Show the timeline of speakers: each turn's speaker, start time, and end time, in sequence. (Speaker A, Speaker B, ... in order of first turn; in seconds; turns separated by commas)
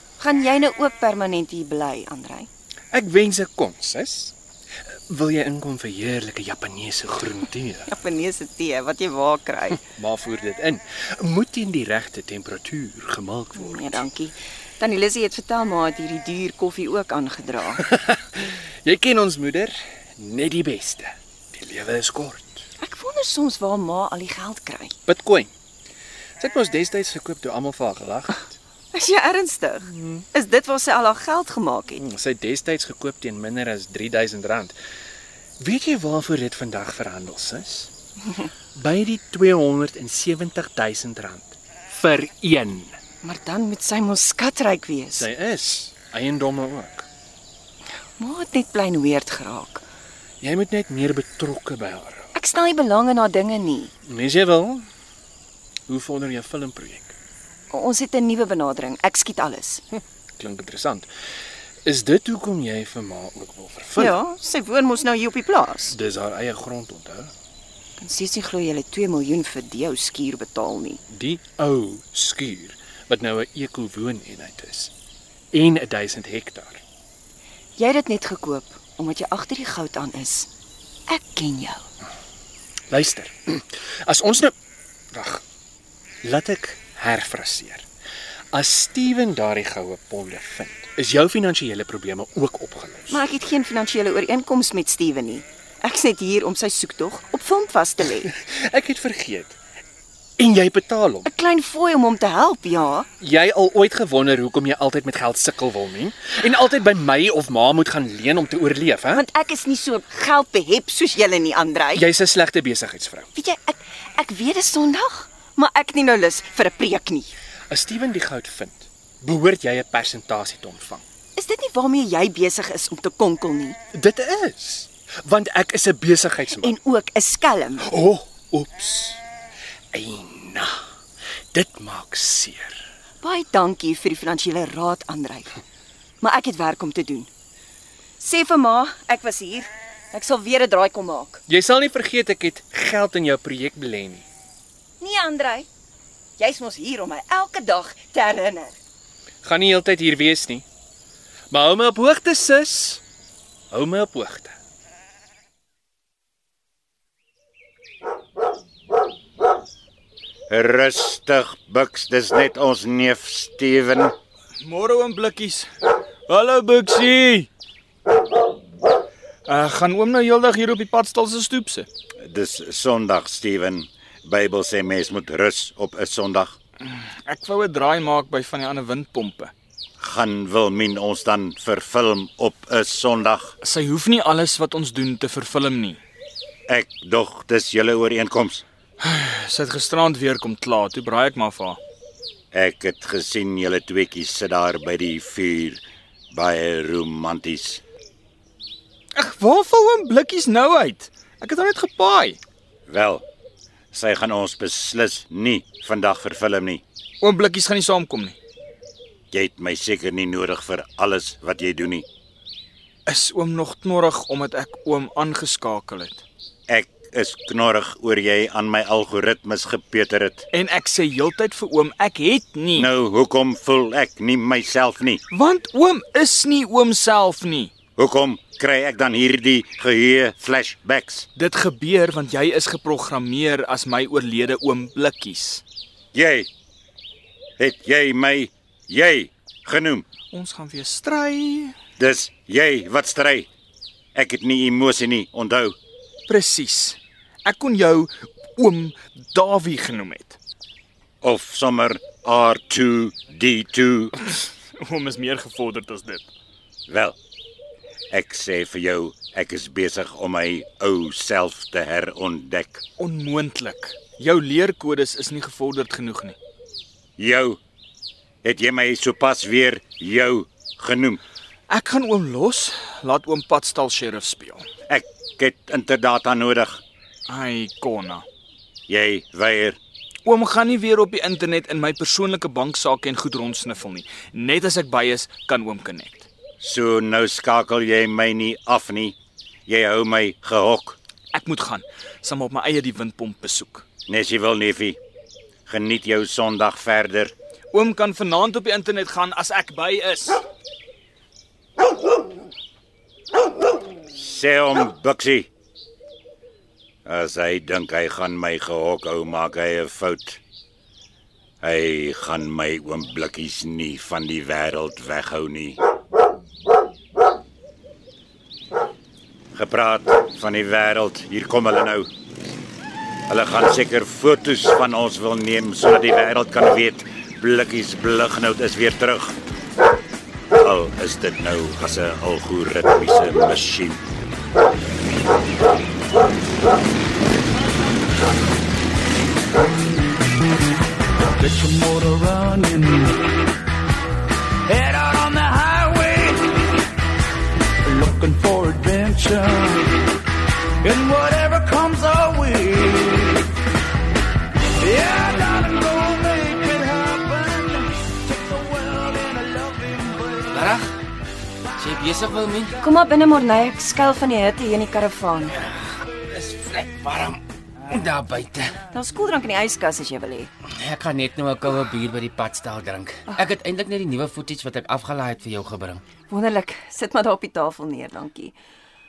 Speaker A: 0.2-2.5, Speaker B: 2.9-4.3, Speaker B: 5.1-7.9, Speaker A: 7.9-9.8, Speaker B: 9.9-14.1, Speaker A: 13.6-17.8, Speaker B: 17.8-22.6, Speaker A: 22.8-24.9, Speaker B: 25.1-25.5, Speaker B: 26.4-28.6, Speaker A: 28.9-32.0, Speaker B: 29.9-30.2, Speaker B: 32.0-34.8, Speaker B: 35.6-37.9, Speaker B: 38.8-43.0, Speaker A: 43.2-45.2, Speaker B: 45.1-47.1, Speaker A: 48.2-49.8, Speaker B: 50.4-52.3, Speaker A: 52.4-53.9, Speaker B: 54.1-54.9, Speaker B: 55.9-57.1, Speaker A: 57.7-59.8, Speaker B: 60.4-61.1, Speaker B: 61.9-64.2, Speaker A: 64.0-66.0, Speaker B: 65.9-67.3, Speaker A: 68.0-71.0, Speaker B: 71.1-74.9, Speaker B: 75.5-76.8, Speaker A: 77.8-80.5, Speaker A: 81.1-81.9, Speaker B: 82.9-84.5, Speaker B: 85.1-85.4, Speaker B: 86.2-87.9, Speaker B: 88.5-93.2, Speaker A: 93.1-98.3, Speaker B: 98.3-99.6, Speaker B: 100.4-101.3, Speaker A: 101.2-103.1, Speaker B: 103.2-109.2, Speaker A: 109.1-112.0, Speaker B: 111.9-113.3, Speaker A: 113.3-117.3, Speaker B: 117.7-121.0, Speaker A: 121.4-123.8, Speaker B: 123.9-126.7, Speaker A: 126.6-127.9, Speaker B: 127.8-129.2, Speaker B: 129.9-130.8, Speaker B: 131.5-132.9, Speaker A: 133.2-135.5, Speaker A: 136.2-137.3, Speaker A: 138.2-141.4, Speaker B: 141.5-144.3, Speaker A: 145.0-145.7, Speaker A: 146.4-148.8, Speaker B: 149.4-150.7, Speaker B: 151.5-153.0, Speaker B: 153.7-154.6, Speaker C: 160.5-164.2, Speaker D: 164.6-165.7, Speaker D: 166.3-167.5, Speaker D: 169.5-171.9, Speaker C: 172.2-176.6, Speaker D: 176.8-179.5, Speaker C: 180.0-183.6, Speaker D: 183.6-186.0, Speaker C: 186.7-188.6, Speaker D: 189.0-191.8, Speaker C: 192.5-197.8, Speaker D: 199.2-202.4, Speaker C: 202.9-203.2, Speaker C: 203.9-206.8, Speaker D: 207.2-208.4, Speaker C: 209.3-212.1, Speaker D: 213.1-216.2, Speaker C: 216.7-220.4, Speaker D: 220.5-222.9, Speaker C: 222.8-225.2, Speaker D: 225.3-227.7, Speaker C: 228.0-231.3, Speaker D: 231.4-235.6, Speaker C: 236.1-236.5, Speaker C: 237.6-240.1, Speaker D: 240.3-241.7, Speaker C: 242.0-243.5, Speaker C: 244.2-245.8, Speaker D: 246.3-250.4, Speaker C: 251.2-254.2, Speaker D: 254.3-256.3, Speaker C: 256.9-257.2, Speaker C: 258.1-262.8, Speaker D: 263.0-266.4, Speaker C: 267.2-267.6, Speaker C: 268.4-271.2, Speaker D: 271.7-274.6, Speaker C: 274.9-276.8, Speaker D: 277.3-278.2, Speaker C: 278.9-279.8, Speaker D: 280.2-286.3, Speaker C: 286.6-291.0, Speaker D: 291.3-293.8, Speaker C: 294.1-295.0, Speaker C: 295.7-297.3, Speaker D: 297.7-300.4, Speaker C: 304.1-305.5, Speaker C: 307.1-310.4, Speaker C: 311.6-315.8, Speaker C: 319.6-322.1, Speaker C: 323.3-329.4, Speaker C: 330.5-334.0, Speaker E: 341.4-343.2, Speaker E: 344.7-346.6, Speaker E: 347.9-350.0, Speaker E: 350.8-353.4, Speaker E: 354.8-360.4, Speaker F: 360.5-360.9, Speaker F: 361.8-362.8, Speaker A: 362.8-365.6, Speaker F: 365.5-368.8, Speaker A: 368.9-370.5, Speaker F: 370.8-376.0, Speaker A: 376.3-378.5